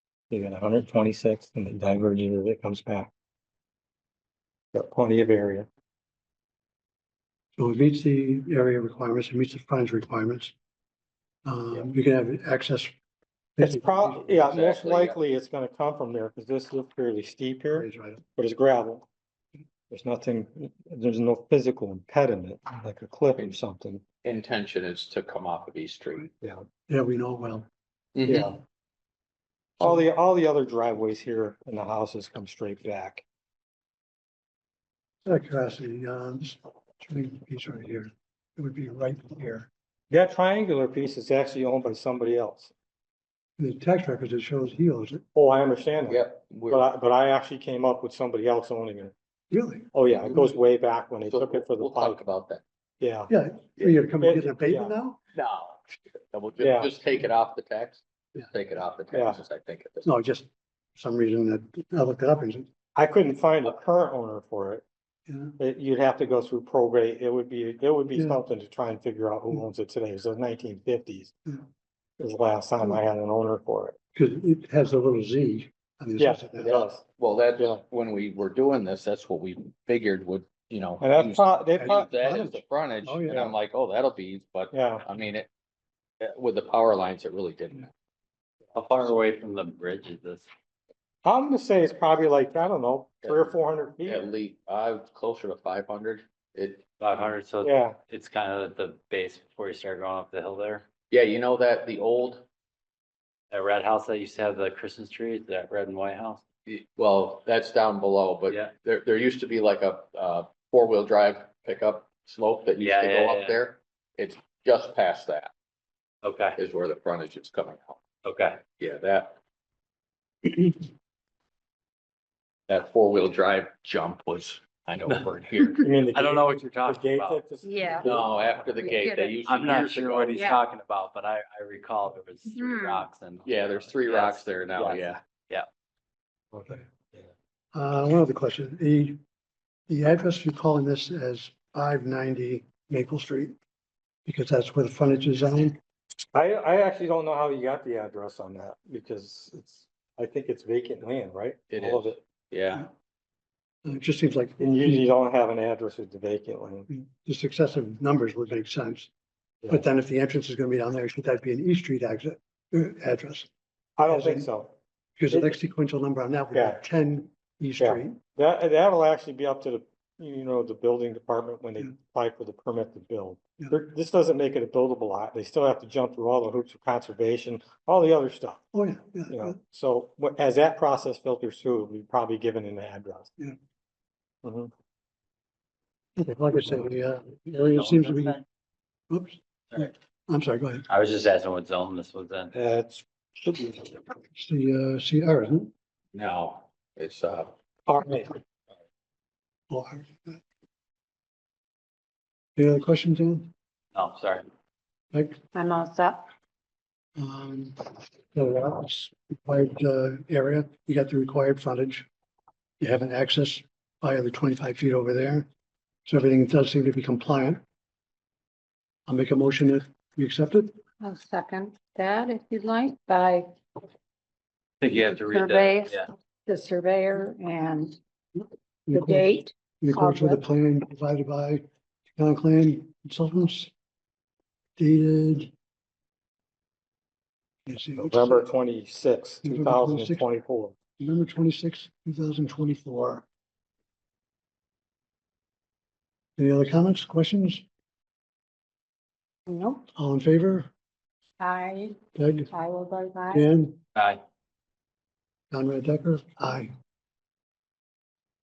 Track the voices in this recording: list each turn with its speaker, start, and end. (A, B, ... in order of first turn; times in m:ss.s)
0:00.3-0:03.1 A
0:04.7-0:05.7 A
0:07.6-0:10.5 B
0:11.4-0:12.9 B
0:13.6-0:14.5 B
0:13.6-0:19.0 A
0:14.4-0:15.2 C
0:17.7-0:18.2 B
0:19.9-0:24.0 A
0:24.2-0:26.3 C
0:26.4-0:26.6 A
0:26.9-0:27.7 B
0:28.1-0:28.6 C
0:28.2-0:28.6 A
0:29.8-0:33.2 A
0:35.2-0:39.7 B
0:40.1-0:42.7 A
0:43.6-0:45.2 B
0:45.3-0:49.1 A
0:46.1-0:46.8 C
0:49.5-0:49.9 B
0:49.9-0:52.2 A
0:51.3-0:52.6 C
0:53.0-0:53.3 A
0:53.3-0:55.2 B
0:54.2-0:54.9 A
0:55.3-1:00.1 C
0:56.6-0:56.9 A
0:59.1-0:59.4 A
1:00.0-1:02.7 B
1:02.9-1:04.8 A
1:05.3-1:05.6 B
1:05.6-1:11.3 A
1:12.2-1:14.0 A
1:14.1-1:16.7 B
1:16.2-1:17.0 A
1:16.6-1:25.5 C
1:17.6-1:17.8 A
1:21.0-1:22.5 A
1:21.7-1:23.6 B
1:24.7-1:25.0 A
1:26.2-1:27.9 C
1:28.7-1:30.4 D
1:31.2-1:34.3 A
1:33.2-1:33.5 C
1:34.0-1:36.8 C
1:37.0-1:40.8 D
1:37.6-1:38.0 A
1:41.1-1:42.4 C
1:43.5-1:46.4 D
1:46.6-1:55.5 C
1:52.8-1:53.6 D
1:56.2-1:56.6 D
1:56.6-1:58.0 C
1:58.2-1:58.6 D
1:58.7-1:59.4 C
2:02.7-2:05.8 C
2:05.1-2:07.4 D
2:05.8-2:08.8 A
2:07.6-2:08.2 E
2:08.0-2:10.4 C
2:08.8-2:09.4 E
2:09.4-2:15.7 D
2:10.3-2:10.6 E
2:12.5-2:13.0 E
2:13.4-2:15.2 C
2:16.5-2:17.2 A
2:17.7-2:19.2 B
2:19.9-2:23.5 B
2:24.2-2:25.8 B
2:26.3-2:32.2 A
2:31.7-2:32.9 C
2:33.8-2:35.1 B
2:34.6-2:36.9 A
2:36.9-2:39.1 B
2:39.7-2:43.5 B
2:44.0-2:44.7 A
2:44.1-2:44.5 B
2:45.2-2:48.2 B
2:45.3-2:45.5 A
2:46.5-2:46.8 A
2:47.8-2:58.6 A
2:58.7-2:59.6 B
2:59.3-3:03.3 A
3:04.4-3:04.7 A
3:06.2-3:08.4 B
3:07.6-3:08.4 D
3:09.1-3:10.8 B
3:10.9-3:12.5 D
3:12.5-3:13.9 A
3:14.4-3:15.7 B
3:16.1-3:17.5 C
3:17.9-3:18.3 A
3:19.7-3:20.4 B
3:22.6-3:23.5 B
3:23.9-3:24.4 D
3:25.5-3:26.3 E
3:27.2-3:32.1 B
3:32.8-3:35.4 B
3:36.0-3:37.6 B
3:39.1-3:40.7 B
3:41.0-3:43.5 E
3:44.8-3:46.1 D
3:45.3-3:48.0 E
3:48.4-3:51.6 B
3:48.9-3:50.4 E
3:52.2-3:53.7 B
3:54.8-3:55.5 B
3:57.6-3:58.5 B
3:58.0-4:00.7 A
3:59.4-4:00.3 B
4:01.0-4:03.2 B
4:06.4-4:07.6 B
4:09.5-4:09.8 E
4:09.9-4:10.7 B
4:11.4-4:12.0 E
4:12.1-4:12.5 B
4:12.5-4:13.4 E
4:13.3-4:13.8 B
4:13.9-4:14.2 D
4:15.5-4:16.7 B